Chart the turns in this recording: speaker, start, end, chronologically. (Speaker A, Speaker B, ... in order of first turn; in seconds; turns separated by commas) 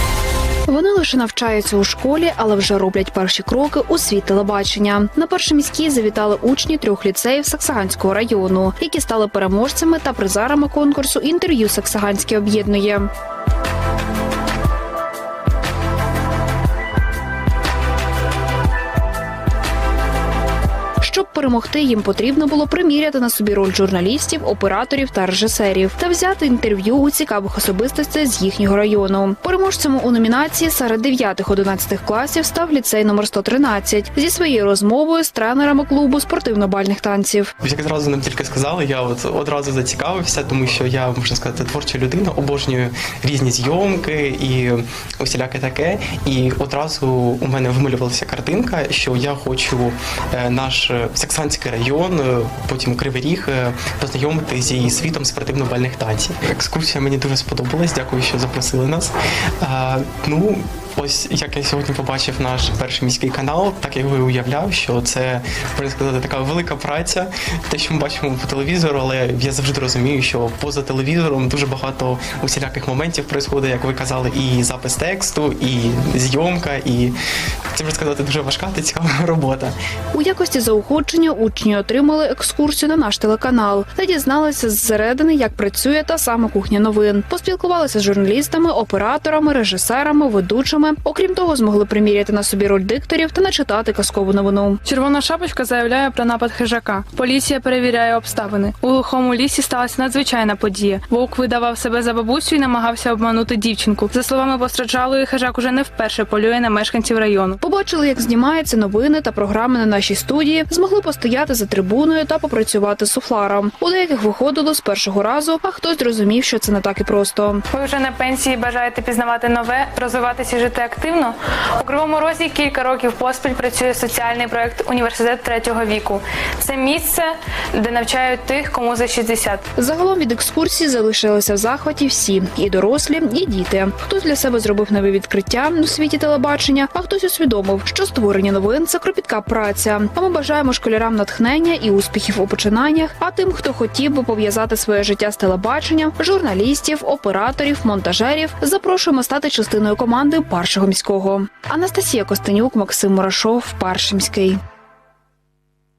Speaker A: 0.7-13.1, Speaker A: 21.0-37.5, Speaker B: 37.6-77.2, Speaker B: 77.7-79.7, Speaker A: 80.1-94.8, Speaker C: 94.8-107.6, Speaker A: 107.6-117.6, Speaker C: 117.7-129.6, Speaker A: 129.8-154.6